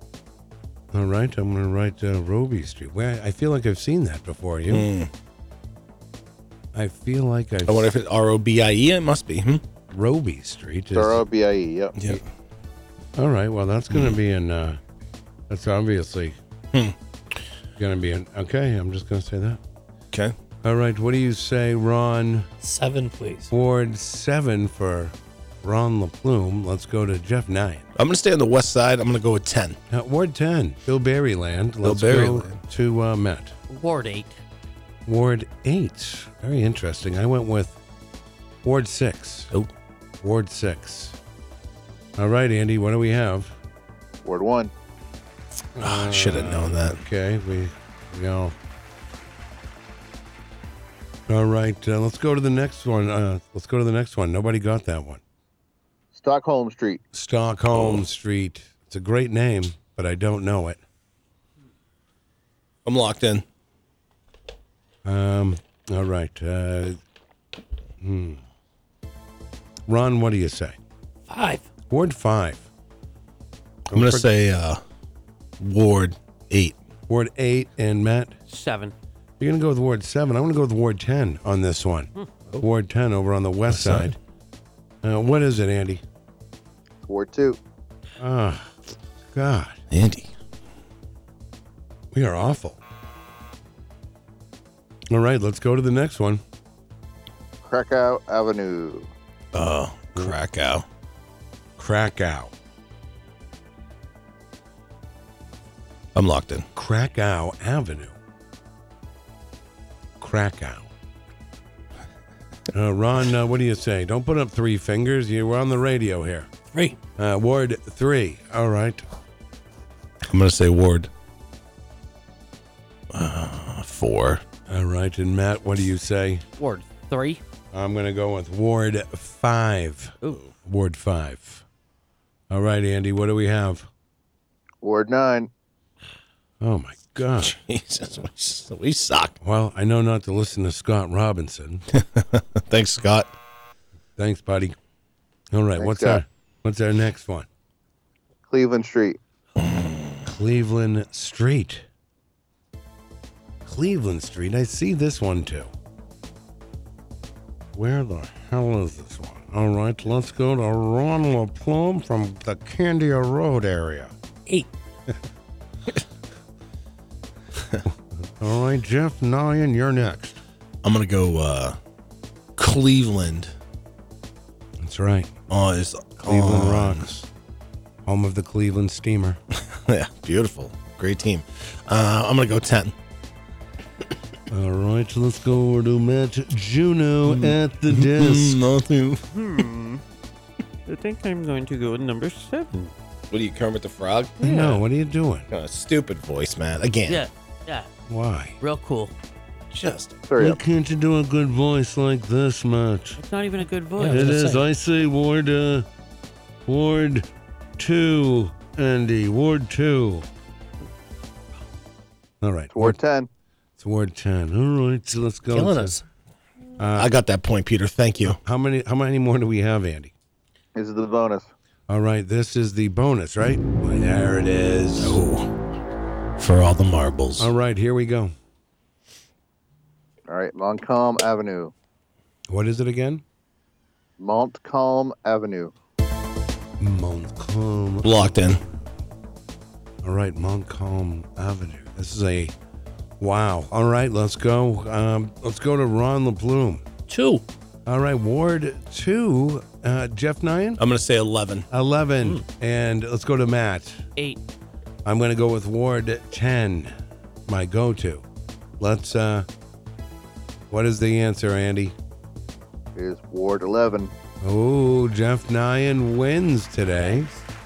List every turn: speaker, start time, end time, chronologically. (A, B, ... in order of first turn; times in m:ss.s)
0:00.9-0:04.9 A
0:04.7-0:05.1 B
0:06.7-0:07.9 A
0:07.7-0:09.6 B
0:09.9-0:11.2 A
0:10.9-0:12.0 C
0:12.0-0:12.2 B
0:13.2-0:14.8 A
0:15.5-0:16.4 A
0:17.8-0:19.6 A
0:20.6-0:22.5 A
0:22.6-0:23.5 D
0:23.5-0:27.9 A
0:28.0-0:29.8 B
0:29.9-0:33.6 A
0:31.8-0:32.6 B
0:33.7-0:34.4 E
0:35.1-0:37.8 A
0:38.6-0:39.5 A
0:40.2-0:41.2 A
0:42.2-0:43.6 A
0:44.2-0:44.7 C
0:45.8-0:48.6 A
0:45.8-0:47.0 B
0:51.3-0:55.2 A
0:56.1-0:57.0 C
0:57.1-1:00.8 A
0:57.7-0:58.0 B
1:02.8-1:03.4 B
1:05.0-1:07.0 A
1:08.0-1:08.4 A
1:09.9-1:10.8 A
1:11.3-1:11.7 D
1:11.9-1:12.6 A
1:13.9-1:14.3 A
1:13.9-1:14.8 B
1:15.6-1:16.8 B
1:17.1-1:18.4 A
1:18.5-1:18.9 E
1:19.4-1:24.2 A
1:23.7-1:24.1 B
1:25.0-1:26.0 A
1:27.0-1:27.6 C
1:28.2-1:28.8 A
1:29.3-1:29.8 A
1:29.9-1:30.3 B
1:32.1-1:32.8 A
1:35.1-1:36.4 A
1:37.6-1:39.1 C
1:39.5-1:40.8 B
1:41.8-1:42.5 A
1:46.2-1:46.7 B
1:46.8-1:48.2 A
1:50.2-1:50.9 A
1:52.7-1:56.5 A
1:56.7-1:57.0 D
1:57.2-1:59.0 A
2:00.2-2:01.1 B
2:03.1-2:04.4 B
2:04.7-2:06.4 A
2:06.6-2:07.4 E
2:07.7-2:11.6 A
2:12.5-2:13.9 A
2:14.8-2:15.5 C
2:16.6-2:17.6 A
2:17.3-2:19.4 B
2:19.4-2:21.8 A
2:21.9-2:23.3 B
2:24.2-2:24.8 A
2:25.5-2:27.5 A
2:25.8-2:26.2 C
2:28.5-2:29.2 C
2:29.6-2:30.2 B
2:30.2-2:31.9 A
2:33.6-2:35.7 A
2:37.7-2:44.1 A
2:47.9-2:50.4 A
2:50.8-2:51.8 B
2:52.6-2:53.5 B
2:54.8-2:55.3 A
2:55.5-2:57.1 B
2:56.3-2:57.3 A
2:58.0-2:59.4 A
2:59.5-3:03.0 B
3:04.5-3:08.6 A
3:07.3-3:09.2 B
3:09.3-3:10.0 E
3:10.9-3:12.9 E
3:13.3-3:14.8 B
3:14.4-3:15.5 A
3:15.5-3:17.2 B
3:17.1-3:17.9 E
3:18.1-3:18.6 A
3:18.6-3:19.1 E
3:19.7-3:20.2 B
3:20.3-3:20.6 C
3:20.4-3:23.2 A
3:23.2-3:24.3 E
3:24.0-3:24.6 D
3:24.0-3:25.9 A
3:26.7-3:30.3 A
3:32.4-3:33.0 A
3:32.7-3:33.3 C
3:33.8-3:36.0 A
3:35.5-3:36.0 D
3:36.8-3:37.1 A
3:37.0-3:38.4 B
3:38.3-3:40.1 A
3:40.8-3:41.5 C
3:41.9-3:45.2 A
3:45.0-3:45.5 B
3:46.4-3:47.5 B
3:47.4-3:48.4 A
3:50.3-3:51.7 C
3:52.5-3:53.2 A
3:54.2-3:55.7 C
3:56.8-3:58.8 A
3:58.0-3:58.6 B
4:00.0-4:02.5 A
4:03.2-4:06.8 A
4:07.1-4:07.4 D
4:07.9-4:10.8 A
4:10.8-4:11.7 B
4:11.7-4:14.0 A
4:15.0-4:16.9 A
4:17.5-4:18.2 A
4:18.8-4:19.5 A
4:20.7-4:22.0 A
4:23.0-4:24.1 C
4:24.4-4:27.3 A
4:27.0-4:27.4 D